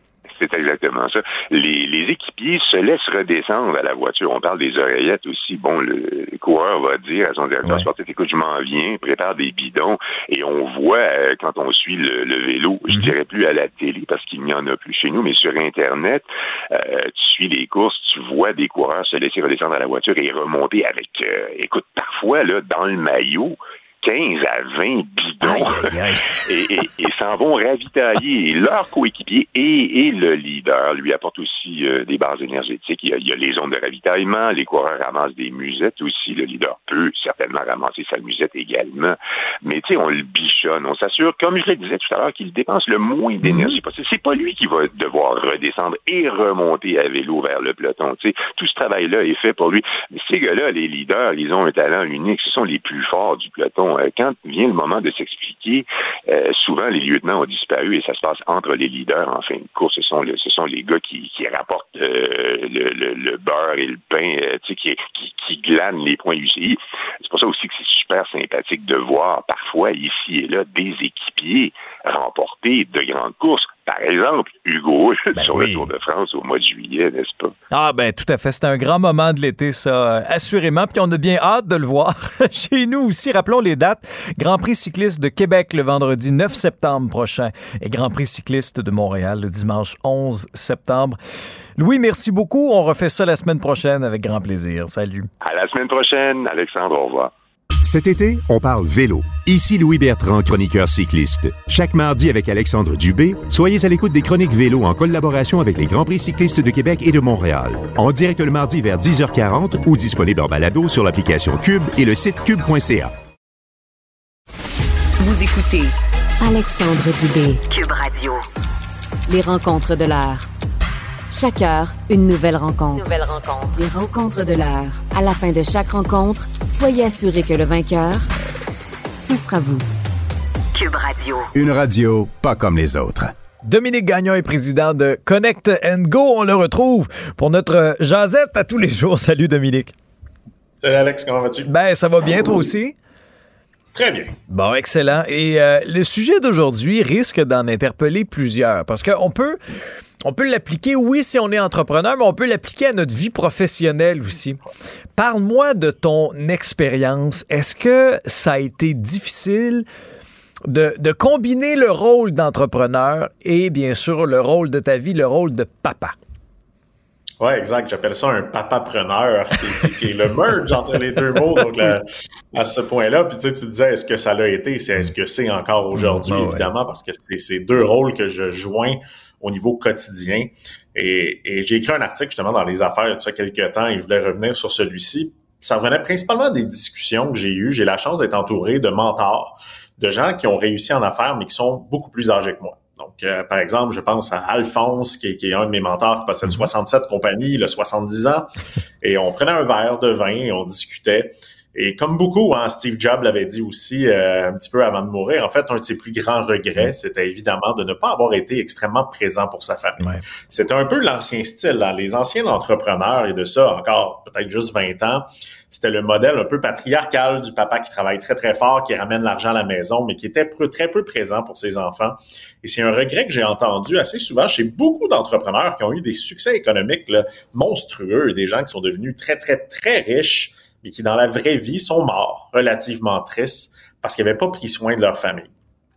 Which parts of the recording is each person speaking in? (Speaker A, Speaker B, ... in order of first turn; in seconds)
Speaker A: 0.3-77.5, 95.4-97.3
Speaker B: 25.4-26.8, 43.4-43.8, 75.3-75.9, 77.7-91.2, 91.8-95.3, 133.6-139.9, 141.7-142.9, 144.5-149.6, 150.2-154.6, 155.2-159.8, 160.7-166.2, 175.9-176.7
Speaker C: 97.8-113.1, 131.5-133.3
Speaker D: 115.2-118.4, 119.3-120.5, 121.3-128.3, 129.2-129.8, 130.7-131.5
Speaker E: 140.8-141.7, 143.9-144.3, 167.4-198.5, 199.0-235.5